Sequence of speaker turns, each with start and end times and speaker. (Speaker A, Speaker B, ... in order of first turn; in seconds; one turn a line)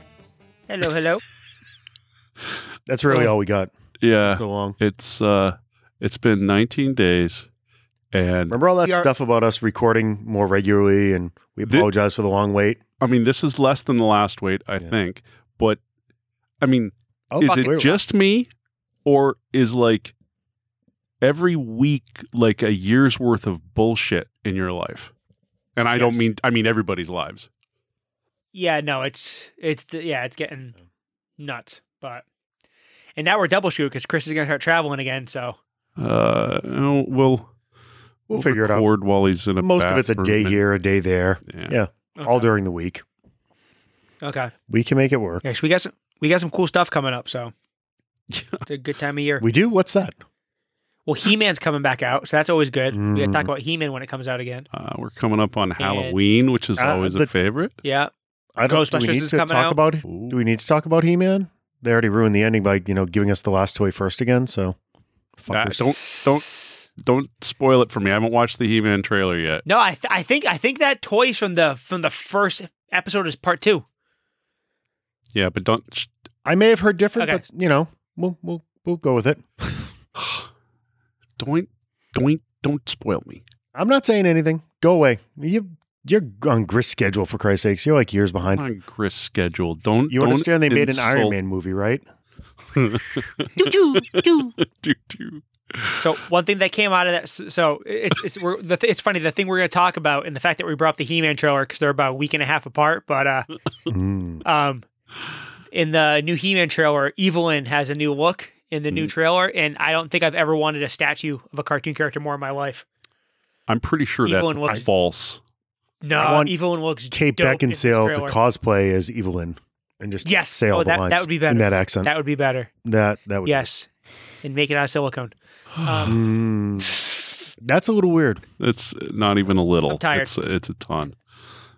Speaker A: 0.7-1.2
Speaker B: 2.9-3.7
Speaker C: 4.0-7.5
Speaker B: 4.3-4.8
Speaker C: 8.1-8.6
Speaker B: 8.5-12.8
Speaker C: 11.7-11.9
Speaker C: 13.0-15.8
Speaker C: 16.6-18.5
Speaker B: 17.3-17.9
Speaker A: 17.4-18.0
Speaker C: 19.1-20.1
Speaker C: 21.2-25.1
Speaker C: 25.8-27.5
Speaker A: 26.0-26.3
Speaker A: 28.5-30.8
Speaker A: 31.4-32.2
Speaker A: 33.2-35.6
Speaker C: 36.0-37.5
Speaker B: 38.3-38.9
Speaker C: 38.3-40.6
Speaker B: 39.6-43.0
Speaker C: 41.5-41.8
Speaker A: 42.2-42.5
Speaker A: 44.2-44.5
Speaker B: 44.7-45.4
Speaker A: 45.4-47.5
Speaker C: 48.3-48.6
Speaker A: 48.7-49.5
Speaker B: 49.4-50.2
Speaker A: 51.1-54.7
Speaker B: 52.9-53.5
Speaker C: 54.7-57.7
Speaker A: 55.8-56.1
Speaker B: 56.8-57.3
Speaker A: 57.8-58.1
Speaker B: 58.6-64.8
Speaker A: 58.7-59.8
Speaker C: 60.1-60.4
Speaker B: 65.4-65.9
Speaker C: 65.5-69.6
Speaker A: 66.0-66.8
Speaker A: 69.7-73.8
Speaker C: 75.3-76.1
Speaker B: 76.5-79.9
Speaker C: 80.2-80.5
Speaker C: 81.4-83.4
Speaker B: 83.8-88.6
Speaker C: 88.4-91.4
Speaker B: 90.1-92.0
Speaker C: 92.7-96.1
Speaker A: 93.6-94.5
Speaker A: 96.0-103.5
Speaker B: 103.9-104.4
Speaker A: 104.4-104.9
Speaker A: 105.7-112.8
Speaker C: 113.7-115.4
Speaker A: 114.2-114.9
Speaker A: 116.0-118.4
Speaker B: 116.2-116.5
Speaker B: 117.1-122.1
Speaker A: 120.2-122.7
Speaker B: 122.8-123.7
Speaker A: 123.5-123.9
Speaker A: 124.4-126.2
Speaker C: 125.8-126.1
Speaker B: 126.0-126.9
Speaker A: 126.8-127.5
Speaker B: 127.6-128.4
Speaker C: 128.6-131.2
Speaker A: 129.9-130.3